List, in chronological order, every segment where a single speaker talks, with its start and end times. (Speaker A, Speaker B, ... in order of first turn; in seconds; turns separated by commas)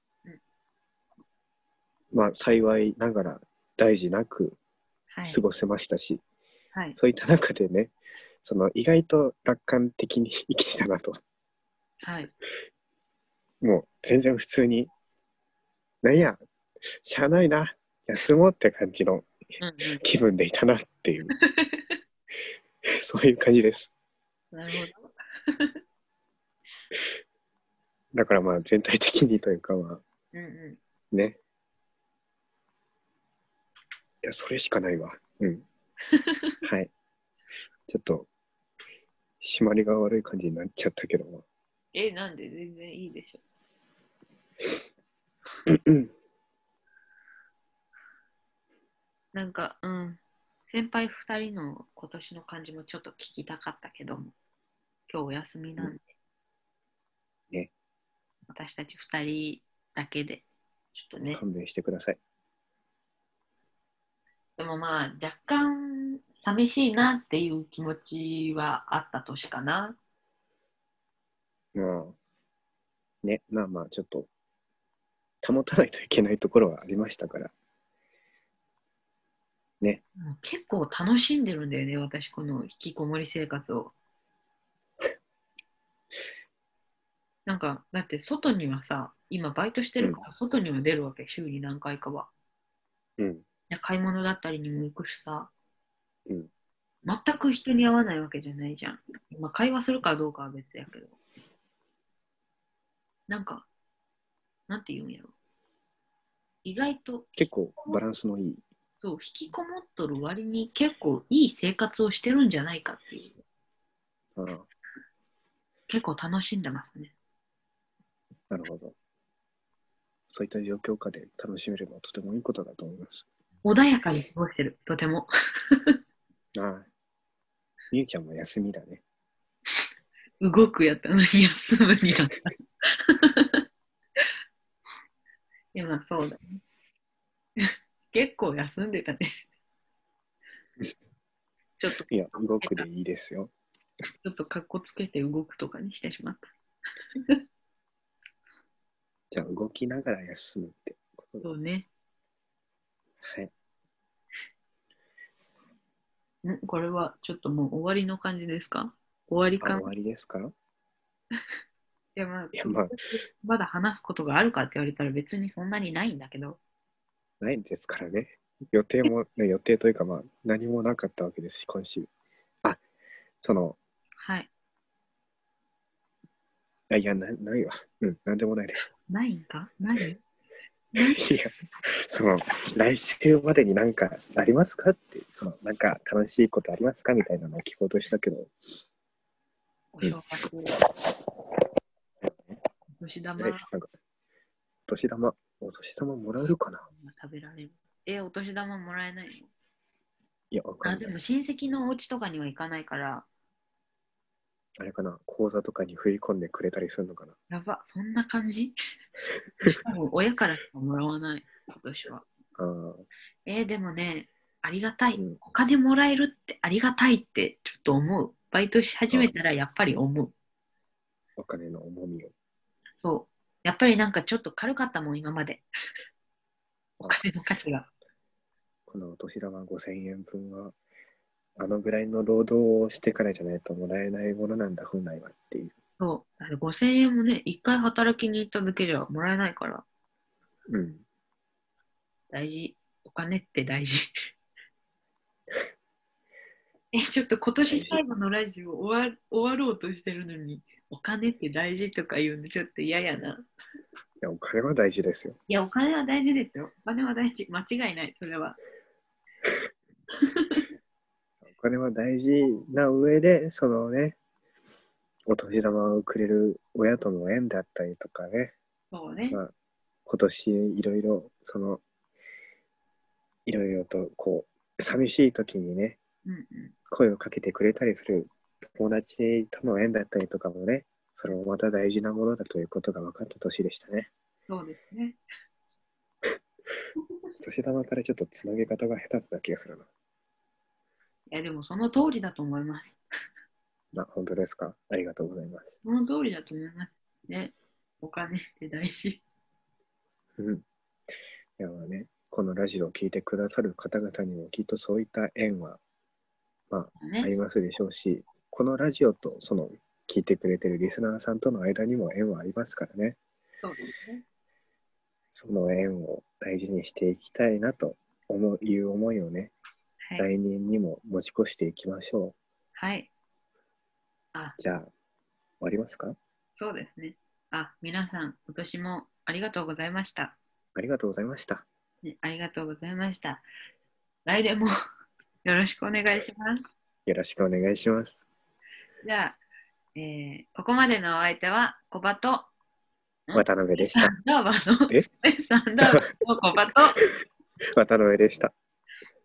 Speaker A: 2.1-4.6, Speaker B: 5.1-5.4, Speaker A: 5.2-6.2, Speaker A: 7.0-11.2, Speaker B: 12.0-12.3, Speaker A: 13.6-14.9, Speaker A: 16.0-16.4, Speaker A: 17.0-19.3, Speaker B: 19.6-20.0, Speaker A: 20.0-21.3, Speaker B: 21.3-22.0, Speaker A: 22.9-23.9, Speaker B: 24.5-25.8, Speaker A: 28.1-30.0, Speaker B: 30.3-30.8, Speaker A: 31.1-31.4, Speaker A: 34.2-35.6, Speaker B: 36.1-36.6, Speaker A: 36.6-36.9, Speaker A: 37.9-38.3, Speaker A: 39.4-41.4, Speaker B: 41.9-43.4, Speaker A: 45.7-46.1, Speaker B: 49.3-54.3, Speaker B: 55.1-56.1, Speaker B: 58.5-61.4, Speaker A: 61.3-62.2, Speaker B: 64.6-70.0, Speaker A: 71.7-72.2, Speaker A: 73.2-74.3, Speaker A: 75.4-77.5, Speaker B: 80.2-83.9, Speaker B: 87.5-92.3, Speaker A: 93.2-93.4, Speaker B: 93.7-95.5, Speaker B: 97.0-101.2, Speaker B: 103.3-103.7, Speaker B: 104.7-105.3, Speaker B: 106.6-107.3, Speaker A: 107.3-108.6, Speaker B: 109.0-113.3, Speaker A: 114.3-114.7, Speaker B: 115.9-117.1, Speaker A: 118.5-118.9, Speaker A: 120.3-123.2, Speaker B: 123.6-126.0, Speaker A: 126.5-126.9, Speaker A: 127.9-129.0, Speaker B: 130.4-133.6, Speaker B: 135.7-136.6, Speaker B: 137.6-139.3, Speaker B: 141.8-142.8, Speaker A: 142.1-143.5, Speaker B: 144.2-146.5, Speaker B: 147.1-147.4, Speaker A: 149.3-151.5, Speaker B: 151.4-151.9, Speaker A: 153.2-153.5, Speaker B: 156.4-159.9, Speaker A: 159.6-160.5, Speaker B: 162.2-166.6, Speaker A: 162.5-162.9, Speaker A: 167.4-172.1, Speaker A: 173.4-173.8, Speaker B: 174.2-174.5, Speaker A: 176.9-178.9, Speaker B: 179.1-180.2, Speaker B: 180.9-181.2, Speaker A: 181.0-188.5, Speaker B: 189.9-190.8, Speaker A: 192.3-192.6, Speaker B: 193.0-193.6, Speaker A: 193.4-193.9, Speaker A: 194.9-196.9, Speaker B: 196.9-199.5, Speaker A: 200.5-201.2, Speaker B: 200.8-203.2, Speaker A: 204.8-207.3, Speaker B: 207.5-208.7, Speaker B: 209.6-212.2, Speaker A: 212.6-213.1, Speaker B: 213.4-220.3, Speaker A: 215.1-215.4, Speaker A: 221.4-222.3, Speaker B: 223.0-225.6, Speaker A: 227.0-227.2, Speaker B: 227.1-227.9, Speaker A: 228.9-230.7, Speaker A: 231.6-235.7, Speaker B: 236.0-239.8, Speaker A: 240.7-241.0, Speaker B: 242.3-244.1, Speaker B: 246.9-253.4, Speaker A: 247.7-248.0, Speaker A: 254.2-255.4, Speaker B: 255.5-258.6, Speaker B: 260.2-260.6, Speaker A: 261.4-264.2, Speaker A: 265.3-268.5, Speaker B: 268.9-269.4, Speaker A: 270.1-271.8, Speaker A: 273.4-276.0, Speaker B: 276.2-276.7, Speaker A: 276.9-284.1, Speaker B: 284.5-285.2, Speaker A: 287.4-289.9, Speaker B: 291.3-293.0, Speaker A: 293.9-295.8, Speaker B: 295.8-299.2, Speaker A: 300.4-300.6, Speaker A: 301.6-305.8, Speaker A: 306.7-313.2, Speaker B: 306.9-307.3, Speaker B: 313.6-314.2, Speaker A: 315.3-319.5, Speaker B: 320.0-320.3, Speaker A: 320.2-322.4, Speaker B: 322.7-323.1, Speaker A: 324.6-324.9, Speaker A: 325.6-326.1, Speaker B: 326.6-330.4, Speaker A: 330.7-331.6, Speaker B: 332.0-333.4, Speaker B: 334.2-334.7, Speaker B: 335.4-336.6, Speaker A: 337.1-338.2, Speaker B: 339.0-339.4, Speaker B: 339.9-342.5, Speaker B: 343.3-347.0, Speaker A: 343.3-344.1, Speaker A: 345.8-346.1, Speaker A: 347.7-348.5